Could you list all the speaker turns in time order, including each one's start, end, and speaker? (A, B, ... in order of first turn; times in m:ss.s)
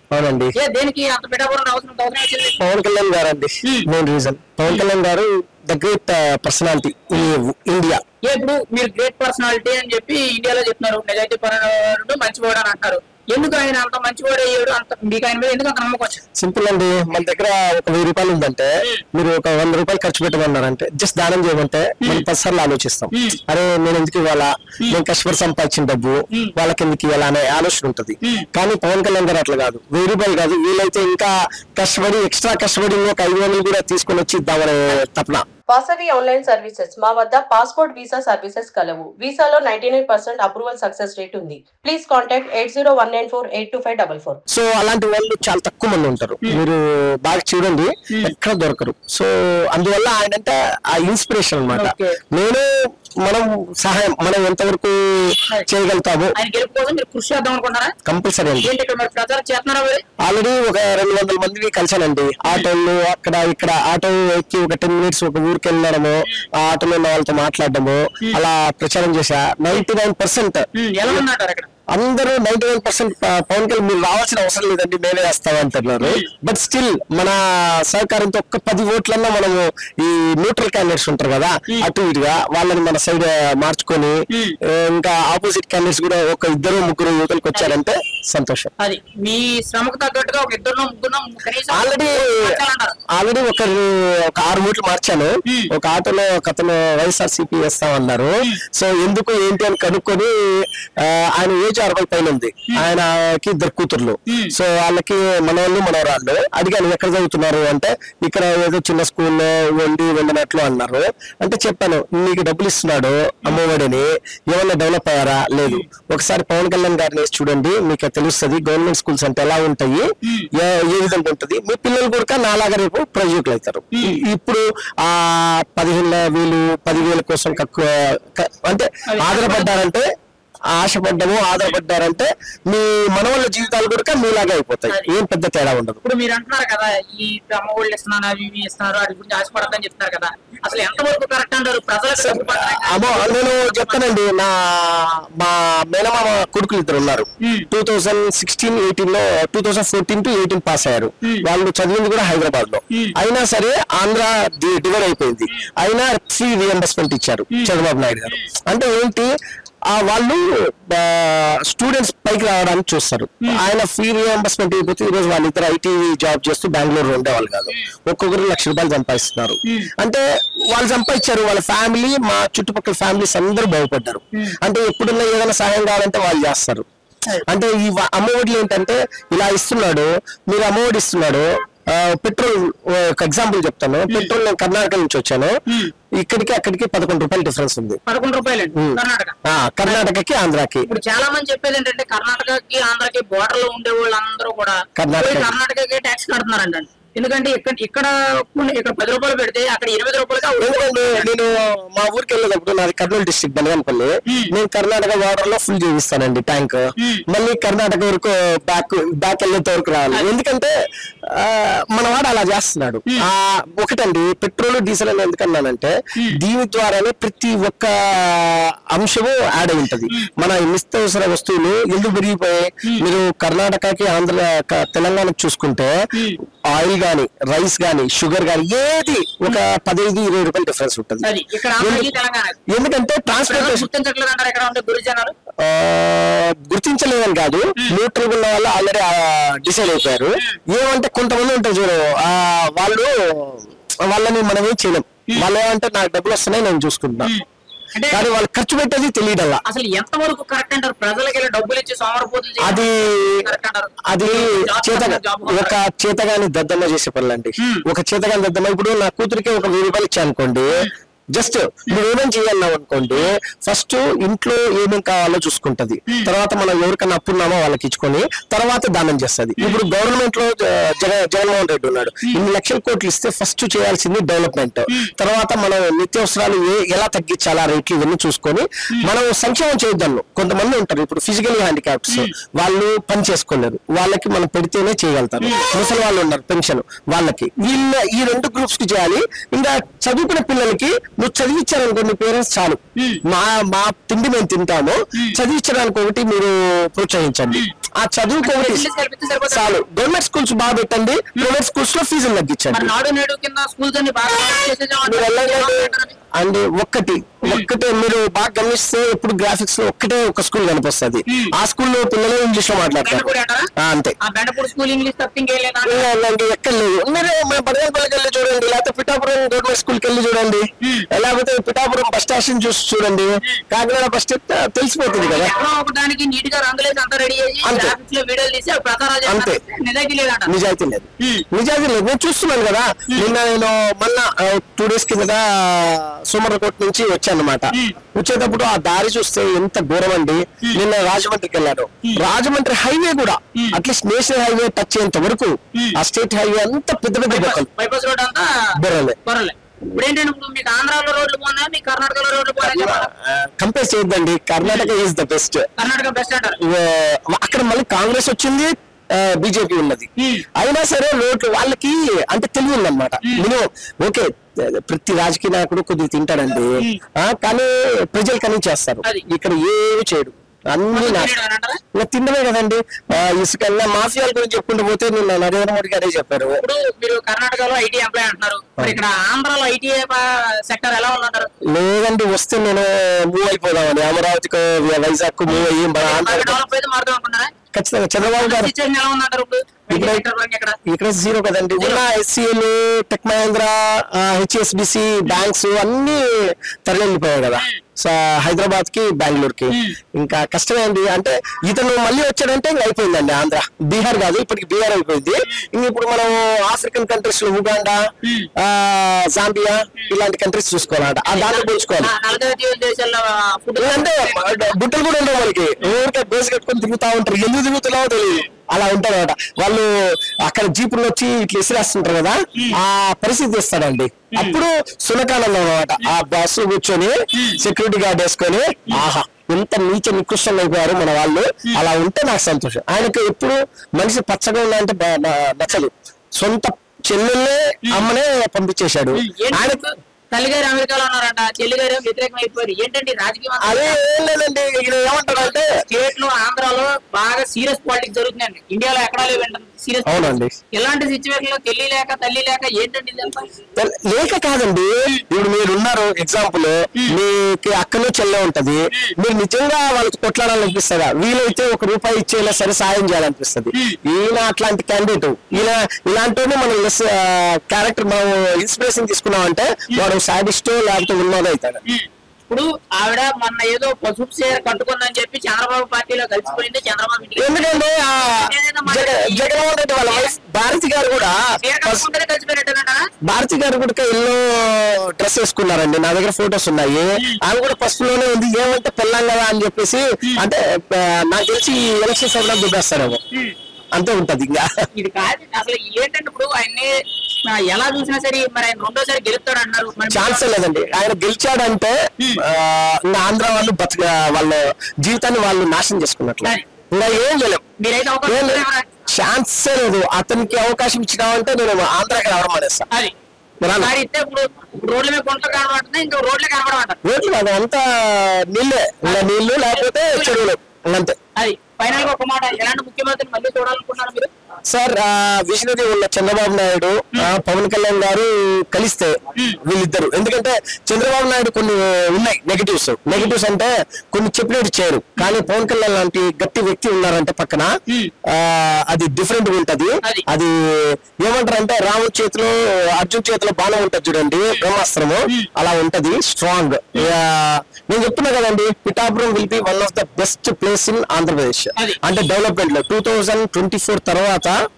0:00.1-0:00.5 A
0:00.5-0:02.6 B
0:02.6-0:08.0 A
0:08.2-0:16.2 B
0:16.4-0:35.4 A
0:23.1-0:23.4 B
0:35.7-0:44.4 C
0:44.5-0:52.7 A
0:51.7-0:52.2 B
0:53.2-0:56.3 A
0:56.4-0:57.9 B
0:58.0-0:58.7 A
0:58.6-1:00.0 B
1:00.2-1:11.2 A
1:10.7-1:11.7 B
1:11.9-1:28.7 A
1:16.0-1:16.3 B
1:24.3-1:24.6 B
1:28.8-1:33.0 B
1:31.7-1:32.6 A
1:33.2-1:40.3 A
1:35.4-1:35.7 B
1:41.0-2:10.0 A
1:44.3-1:44.5 B
2:00.2-2:00.5 B
2:03.9-2:04.2 B
2:09.0-2:09.7 B
2:10.7-2:16.0 A
2:16.0-2:24.0 B
2:22.2-2:39.3 A
2:27.4-2:27.7 B
2:39.9-2:56.8 A
2:57.5-3:05.5 A
3:06.2-3:08.0 A
3:08.1-3:10.0 B
3:08.8-3:10.9 A
3:10.8-3:21.3 B
3:15.0-3:15.5 A
3:20.6-3:30.7 A
3:24.2-3:24.5 B
3:27.0-3:27.2 B
3:31.3-3:45.9 A
3:46.7-3:52.1 A
3:51.2-3:52.6 B
3:52.7-3:53.9 A
3:53.4-3:55.3 B
3:55.6-4:07.3 A
4:07.9-4:08.2 B
4:08.1-4:09.6 A
4:09.6-4:15.7 B
4:12.6-4:13.4 A
4:14.1-4:58.8 A
4:45.4-4:45.7 B
4:53.0-4:53.2 B
4:58.4-4:59.7 B
4:59.5-5:02.9 A
5:02.7-5:06.2 B
5:05.0-5:14.2 A
5:13.0-5:13.7 B
5:14.2-5:16.0 B
5:15.8-5:25.5 A
5:20.8-5:21.1 B
5:25.1-5:30.5 B
5:27.6-5:28.0 A
5:29.2-5:29.6 A
5:30.5-5:47.6 A
5:31.2-5:31.4 B
5:47.3-5:48.5 B
5:48.8-5:49.2 A
5:49.2-5:53.1 B
5:52.6-5:55.7 A
5:54.6-5:54.9 B
5:55.8-5:56.6 B
5:56.6-6:11.3 A
6:00.2-6:00.4 B
6:10.9-6:11.8 B
6:11.9-6:16.6 A
6:16.6-6:21.5 B
6:21.7-6:26.6 A
6:25.5-6:27.5 B
6:27.7-6:28.7 A
6:28.4-6:30.8 B
6:29.9-6:30.2 A
6:30.9-6:48.0 A
6:31.8-6:32.0 B
6:37.5-6:37.8 B
6:39.7-6:39.9 B
6:48.2-6:48.5 B
6:48.6-6:52.1 A
6:51.3-6:54.7 B
6:53.8-6:59.9 A
7:00.4-7:19.8 A
7:04.3-7:04.6 B
7:07.3-7:07.6 B
7:19.2-7:24.0 B
7:23.6-7:25.7 A
7:25.8-7:33.6 B
7:30.0-7:30.5 A
7:33.8-7:51.8 A
7:51.8-7:57.6 B
7:57.4-8:02.1 A
7:58.3-7:59.4 B
8:00.1-8:00.3 B
8:01.6-8:03.0 B
8:03.3-8:13.2 A
8:14.0-8:14.6 A
8:14.9-8:16.9 B
8:17.4-8:20.6 B
8:20.1-8:27.6 A
8:27.8-8:28.8 B
8:28.2-8:32.9 A
8:33.6-8:33.9 A
8:33.8-8:37.0 B
8:37.0-8:41.2 A
8:39.0-8:40.4 B
8:41.4-8:44.3 B
8:44.7-8:57.7 A
8:58.3-9:00.5 A
9:01.2-9:14.5 A